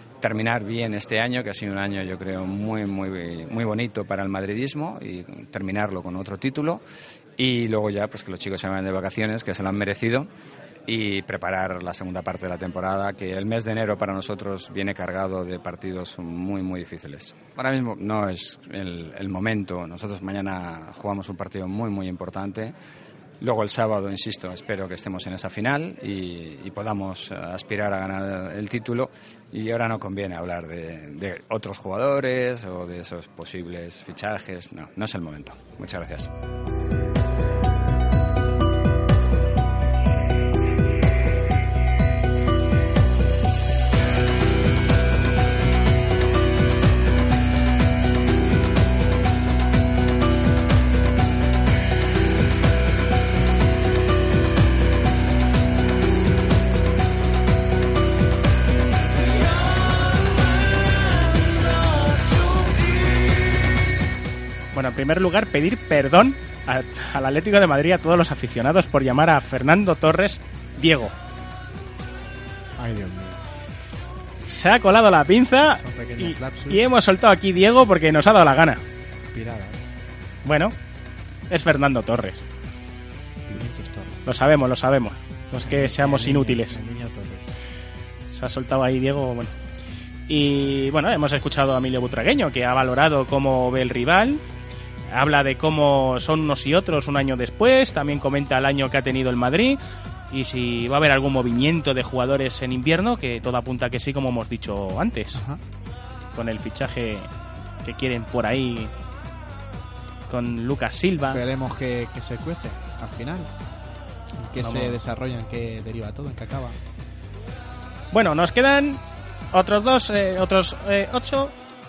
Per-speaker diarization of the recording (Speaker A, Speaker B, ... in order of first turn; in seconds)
Speaker A: 0.2-6.8, 7.4-10.3, 10.9-22.7, 23.4-36.3
Speaker B: 64.7-71.1, 74.5-78.8, 80.4-80.7, 81.5-82.4, 84.2-86.8, 88.3-89.5, 90.3-94.4, 95.1-99.8, 100.3-105.4, 106.3-107.3, 107.8-108.9, 110.3-111.4, 114.6-115.0, 118.1-121.5
Speaker C: 72.8-73.4, 75.7-76.9, 79.3-79.9, 83.5-84.3, 85.5-87.5, 105.3-105.6, 111.3-113.5, 114.4-116.8